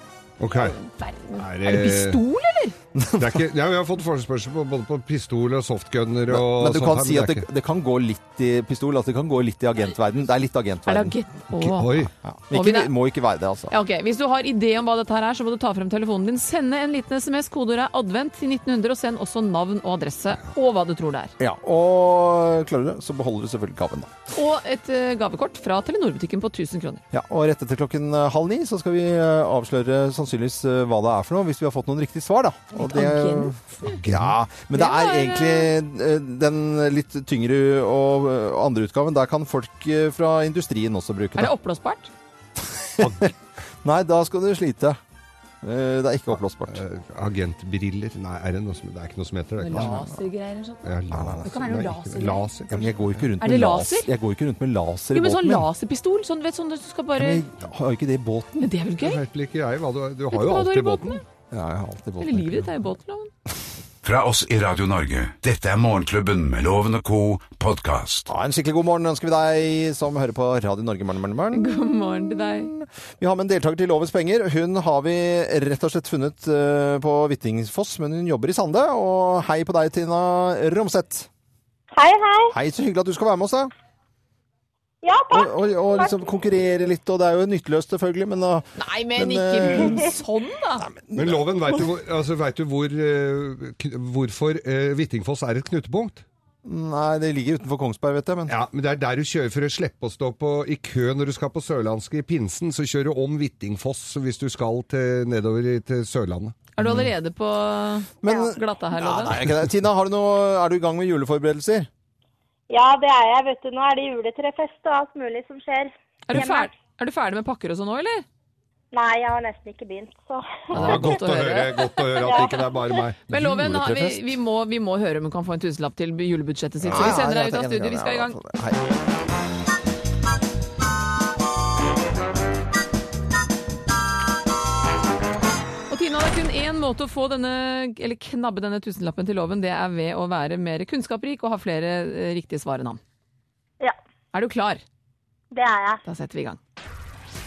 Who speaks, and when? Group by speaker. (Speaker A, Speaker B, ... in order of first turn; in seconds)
Speaker A: 0.4-0.8, 1.4-2.2, 3.2-7.5, 11.6-12.1, 33.9-34.3, 43.0-43.3, 46.7-50.0, 50.8-52.9, 59.0-61.2, 91.2-96.2, 98.5-106.5, 120.7-123.6
Speaker B: 0.5-2.8, 10.9-12.9, 13.7-21.3, 24.3-27.0, 32.8-34.0, 34.7-35.7, 41.4-42.1, 49.6-52.5, 53.4-54.1, 55.1-57.4, 58.6-59.2, 60.3-61.2, 62.2-63.3, 71.5-72.7, 88.8-90.9, 106.8-109.4, 116.3-118.2, 120.7-122.5, 123.3-128.4, 135.9-143.0, 144.3-144.8, 146.1-146.6
Speaker C: 3.0-3.4, 6.3-11.2, 12.2-13.7, 21.4-24.1, 27.1-41.5, 42.6-43.3, 43.8-45.0, 45.6-46.8, 51.1-51.6, 52.7-55.7, 57.2-58.7, 61.5-62.7, 68.3-81.3, 82.5-83.7, 85.3-90.1, 90.8-91.8, 96.6-98.5, 108.2-111.9, 123.4-124.3, 126.8-128.9
Speaker D: 64.0-68.3
Speaker E: 82.0-82.5, 85.0-86.1, 108.3-108.5, 112.7-116.7, 118.9-121.0, 122.2-122.7, 145.5-146.0